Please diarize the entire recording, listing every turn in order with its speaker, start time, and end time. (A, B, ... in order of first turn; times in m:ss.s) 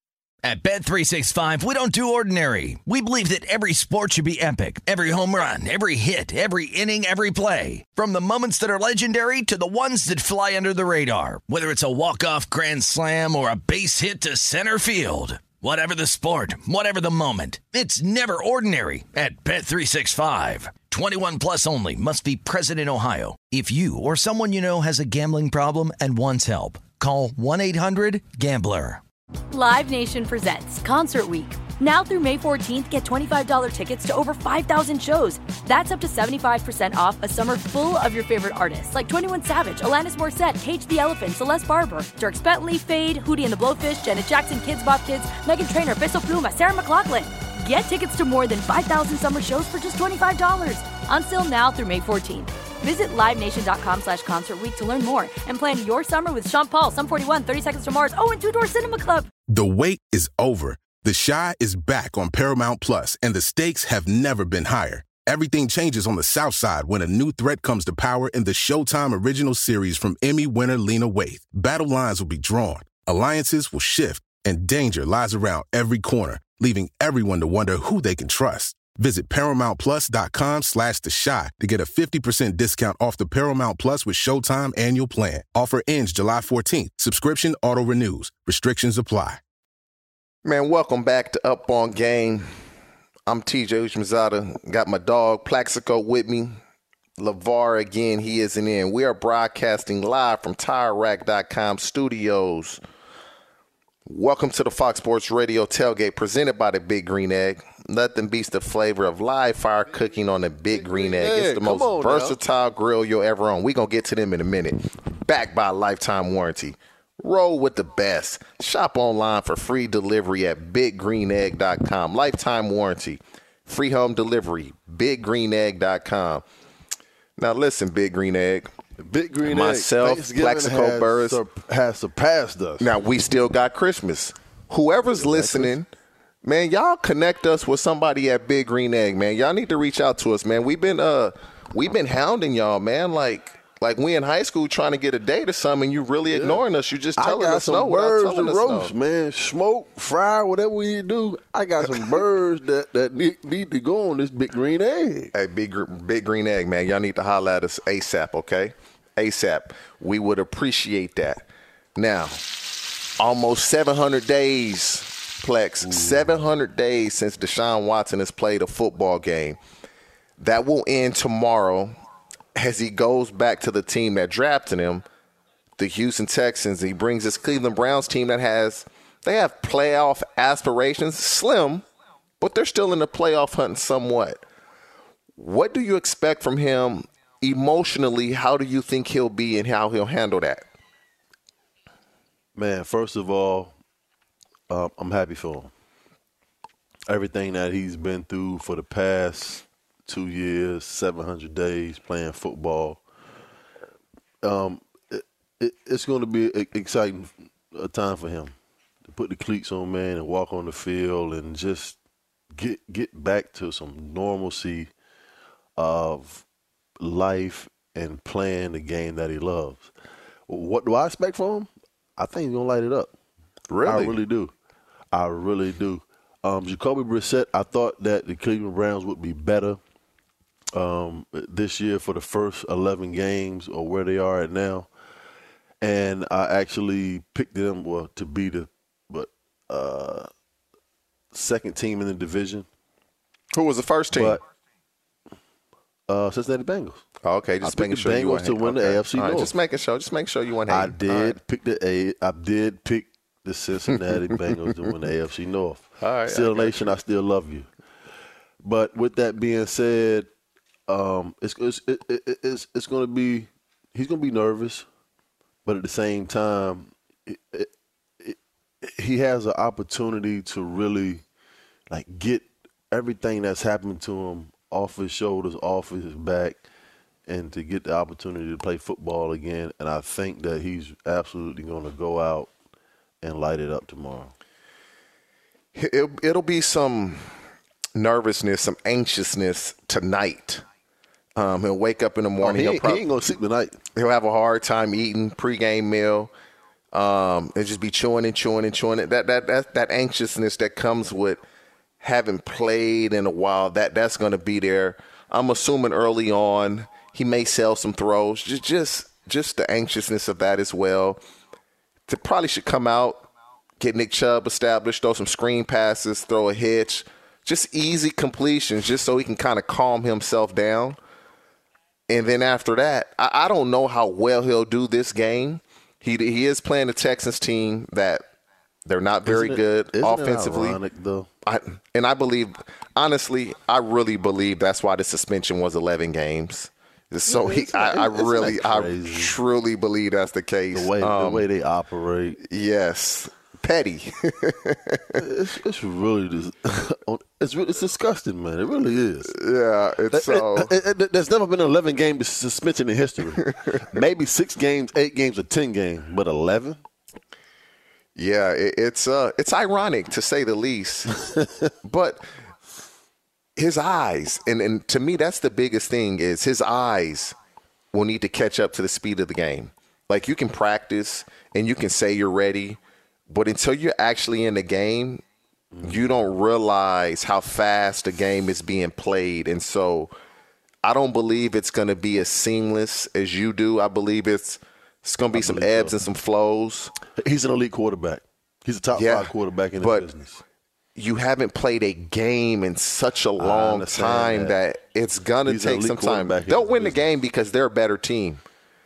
0:00.4-0:29.0 A
0:29.5-0:59.3 B
0:59.5-1:29.4 C
1:30.4-1:32.5 D
1:33.3-1:36.5 D
1:37.2-1:42.8 D
1:44.1-2:06.4 D
1:50.7-1:52.4 E
2:07.4-2:08.7 D
2:09.0-2:12.9 E
2:09.4-2:11.4 D
2:12.8-2:15.9 D
2:15.0-2:15.8 E
2:16.4-2:28.9 D
2:26.3-2:26.6 E
2:27.2-2:35.3 E
2:35.3-2:41.4 D
2:42.0-2:42.4 D
2:43.2-2:49.6 D
2:45.8-2:46.4 E
2:50.4-2:51.9 D
2:52.5-2:55.0 D
2:55.8-3:01.8 D
3:02.4-3:04.4 D
3:05.4-3:10.6 D
3:12.5-3:13.7 E
3:14.7-3:15.7 E
3:17.1-3:23.0 E
3:24.4-3:28.5 E
3:29.1-3:32.0 E
3:32.5-3:34.9 E
3:35.8-3:36.4 E
3:37.0-3:39.9 E
3:40.5-3:43.1 E
3:43.7-3:44.1 D
3:43.8-3:44.5 E
3:45.1-3:49.8 E
3:50.7-3:54.9 E
3:55.8-4:00.3 E
4:01.3-4:02.7 E
4:03.5-4:04.4 D
4:04.1-4:04.4 E
4:06.1-4:07.0 E
4:07.2-4:11.4 D
4:07.6-4:09.5 E
4:10.7-4:17.7 E
4:16.0-4:16.9 D
4:18.6-4:20.3 E
4:20.9-4:24.8 E
4:25.6-4:31.2 E
4:31.9-4:36.6 E
4:37.3-4:42.5 E
4:43.2-4:44.3 E
4:45.7-4:47.2 D
4:47.9-4:50.6 D
4:51.4-4:53.0 D
4:52.4-4:53.8 E
4:53.9-4:56.3 D
4:56.9-5:01.4 D
5:02.0-5:11.2 D
5:12.1-5:13.3 D
5:13.8-5:21.0 D
5:22.1-5:28.2 D
5:28.8-5:30.8 D
5:29.2-5:31.3 E
5:31.4-5:41.4 D
5:37.3-5:39.4 E
5:40.7-5:42.4 E
5:42.4-5:45.2 D
5:45.2-5:49.4 E
5:49.3-5:50.7 D
5:50.1-5:56.8 E
5:58.2-6:01.2 D
6:01.8-6:02.2 D
6:03.6-6:07.3 D
6:07.9-6:12.8 D
6:13.3-6:15.2 D
6:15.7-6:16.0 E
6:15.8-6:20.1 D
6:20.8-6:26.9 D
6:25.3-6:26.0 E
6:27.1-6:30.4 E
6:28.9-6:30.1 D
6:31.0-6:38.4 D
6:33.4-6:34.6 E
6:35.4-6:37.0 E